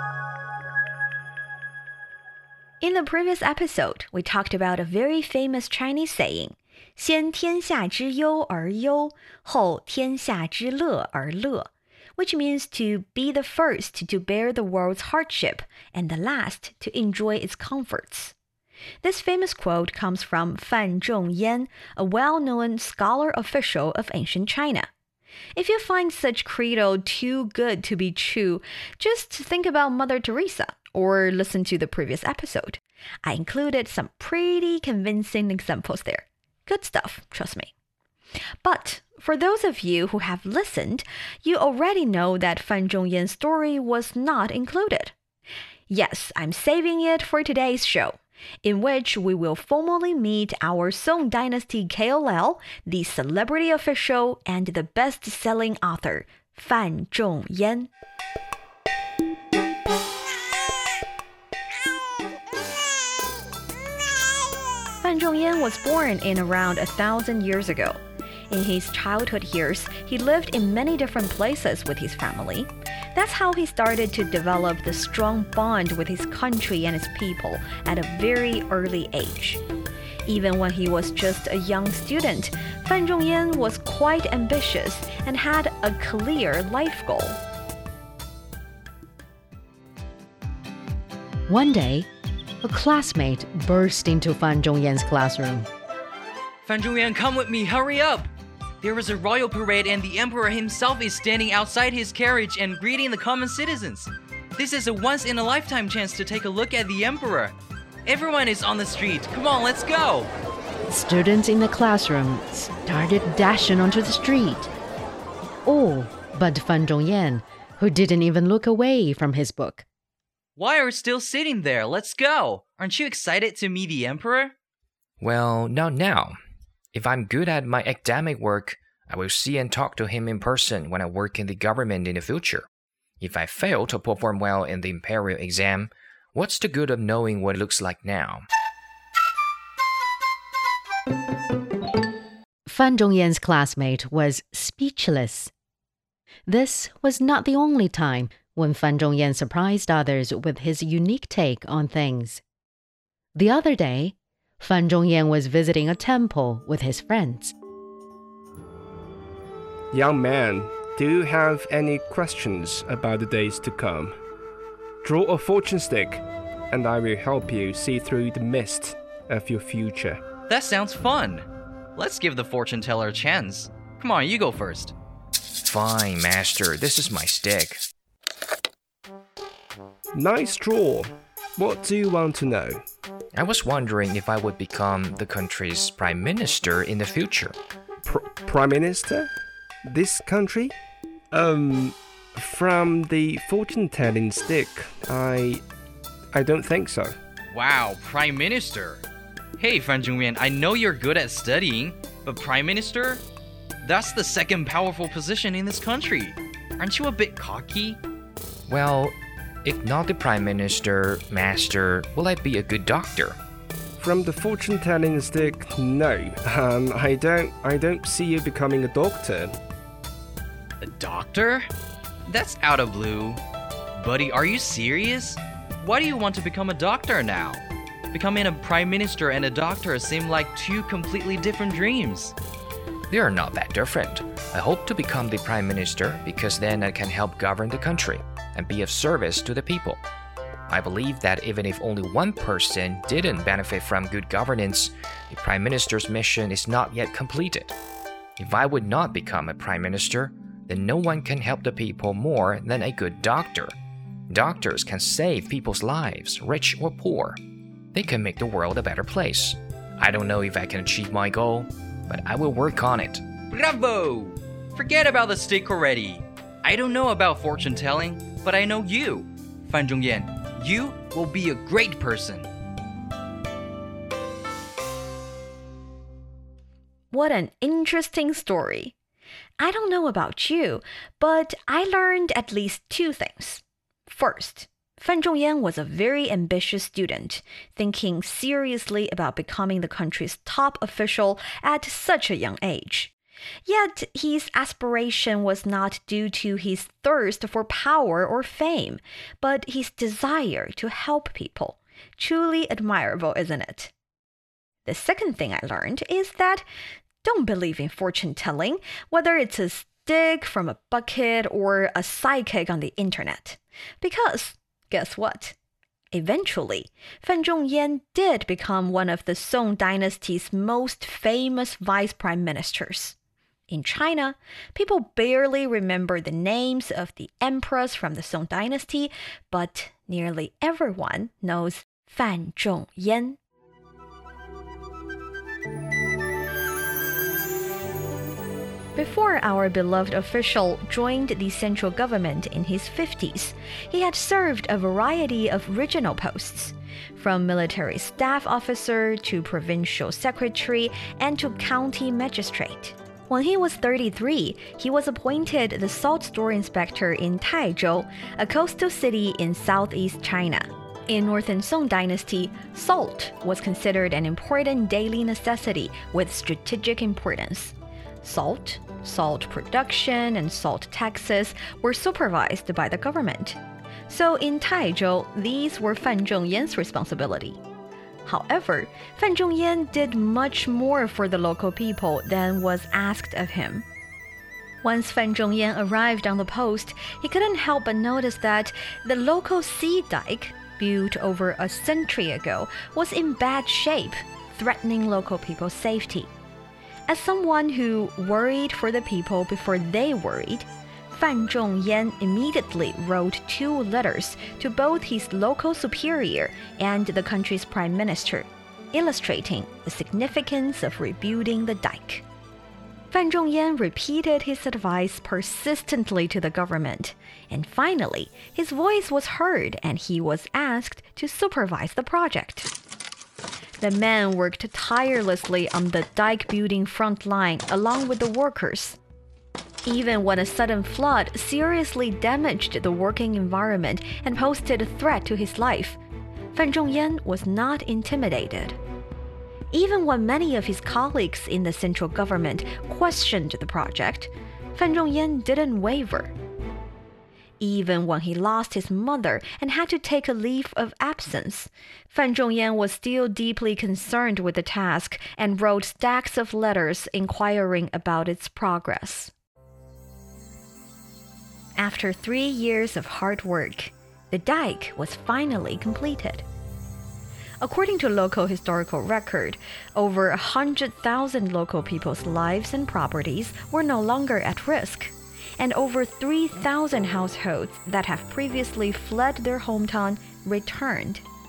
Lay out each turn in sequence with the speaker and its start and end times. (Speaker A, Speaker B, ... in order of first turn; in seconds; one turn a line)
Speaker A: 2.8-18.4
Speaker A: 19.0-24.9
Speaker A: 25.6-37.7
Speaker A: 38.6-45.1
Speaker A: 45.9-57.9
Speaker A: 65.0-79.6
Speaker A: 80.3-87.4
Speaker B: 91.5-92.1
Speaker B: 92.6-95.7
Speaker C: 96.7-98.3
Speaker C: 98.8-107.5
Speaker C: 108.1-110.3
Speaker B: 110.9-114.7
Speaker B: 115.7-119.9
Speaker C: 120.6-124.5
Speaker D: 125.2-126.4
Speaker D: 126.9-132.7
Speaker D: 133.2-138.4
Speaker B: 142.7-145.5
Speaker B: 146.5-152.4
Speaker B: 153.3-157.5
Speaker E: 159.9-164.2
Speaker E: 165.0-170.2
Speaker C: 170.5-174.9
Speaker D: 175.6-177.8
Speaker E: 180.2-182.8
Speaker D: 183.3-187.6
Speaker E: 188.1-189.3
Speaker E: 189.9-190.8
Speaker E: 191.3-195.6
Speaker E: 196.3-197.2
Speaker C: 197.5-199.0
Speaker C: 199.6-203.2
Speaker C: 203.8-208.0
Speaker D: 208.7-213.4
Speaker E: 214.0-219.6
Speaker C: 220.8-221.7
Speaker C: 222.3-223.4
Speaker C: 224.0-232.3
Speaker D: 233.1-240.0
Speaker D: 240.7-247.8
Speaker D: 248.4-253.8
Speaker D: 254.3-257.4
Speaker D: 257.9-263.2
Speaker C: 263.5-272.5
Speaker A: 277.1-278.9
Speaker A: 279.6-293.1
Speaker A: 293.7-303.9
Speaker A: 304.9-306.7
Speaker A: 307.2-315.6
Speaker A: 316.1-323.2
Speaker A: 323.7-333.4
Speaker A: 339.0-377.6
Speaker A: 378.3-383.9
Speaker A: 384.8-396.3
Speaker A: 397.1-412.3
Speaker A: 413.1-422.7
Speaker A: 423.8-429.0
Speaker A: 429.9-436.0
Speaker A: 436.5-438.8
Speaker A: 439.7-446.3
Speaker A: 447.6-459.3
Speaker A: 461.8-466.5
Speaker A: 467.6-481.2